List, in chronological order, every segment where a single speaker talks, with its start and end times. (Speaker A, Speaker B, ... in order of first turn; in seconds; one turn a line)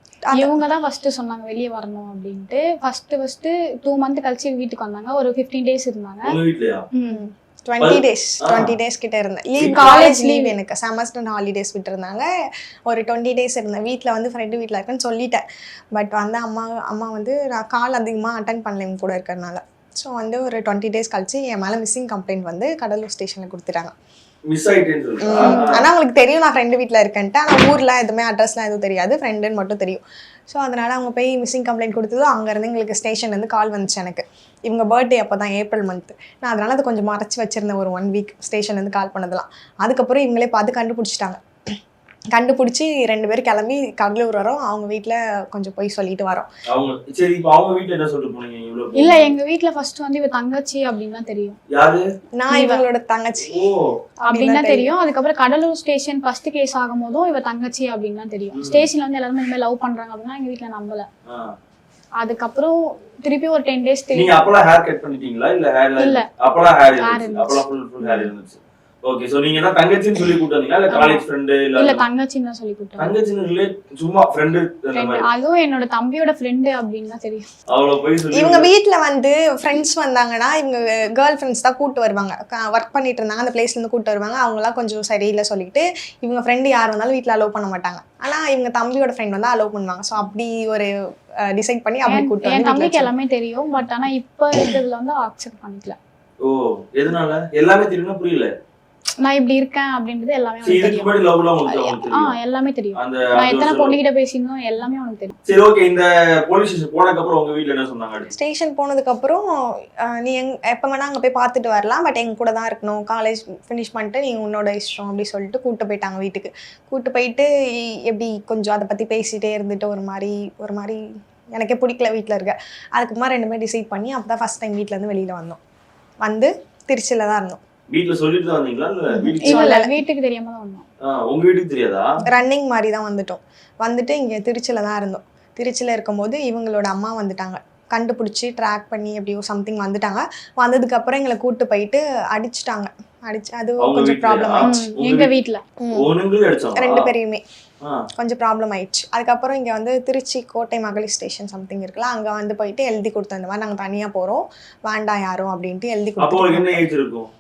Speaker A: 0.3-0.6
Speaker B: 0.3-6.3
Speaker C: 6.2-6.9
Speaker B: 6.9-7.2
Speaker A: 7.1-12.3
Speaker C: 7.8-8.7
Speaker C: 9.6-10.1
Speaker B: 9.7-10.5
Speaker A: 12.9-15.4
Speaker A: 15.9-23.9
Speaker C: 24.5-25.9
Speaker A: 25.2-41.7
Speaker A: 42.3-46.5
Speaker C: 46.7-49.3
Speaker B: 49.0-51.6
Speaker C: 51.7-52.0
Speaker A: 52.4-53.6
Speaker B: 52.5-52.8
Speaker C: 53.4-54.0
Speaker A: 54.2-54.9
Speaker B: 54.2-61.1
Speaker C: 58.5-58.9
Speaker C: 61.2-61.5
Speaker B: 62.2-64.4
Speaker C: 64.1-72.0
Speaker B: 66.0-66.2
Speaker B: 67.0-68.3
Speaker B: 70.9-71.2
Speaker B: 71.8-73.1
Speaker C: 73.0-75.2
Speaker B: 74.9-77.5
Speaker C: 77.7-78.7
Speaker A: 78.3-90.9
Speaker A: 91.4-93.1
Speaker B: 92.0-96.0
Speaker C: 96.4-98.5
Speaker B: 99.2-101.2
Speaker C: 100.6-102.3
Speaker B: 101.7-105.4
Speaker C: 103.0-104.0
Speaker C: 105.5-108.3
Speaker A: 108.3-109.4
Speaker A: 110.0-121.0
Speaker A: 121.5-125.6
Speaker A: 126.2-127.6
Speaker C: 127.9-129.8
Speaker A: 129.2-129.9
Speaker B: 129.4-130.8
Speaker C: 131.0-132.2
Speaker A: 132.3-144.7
Speaker C: 143.8-145.3
Speaker B: 144.6-145.6
Speaker A: 145.8-146.1
Speaker C: 145.9-147.1
Speaker A: 146.8-147.4
Speaker A: 148.2-156.8
Speaker C: 156.2-157.3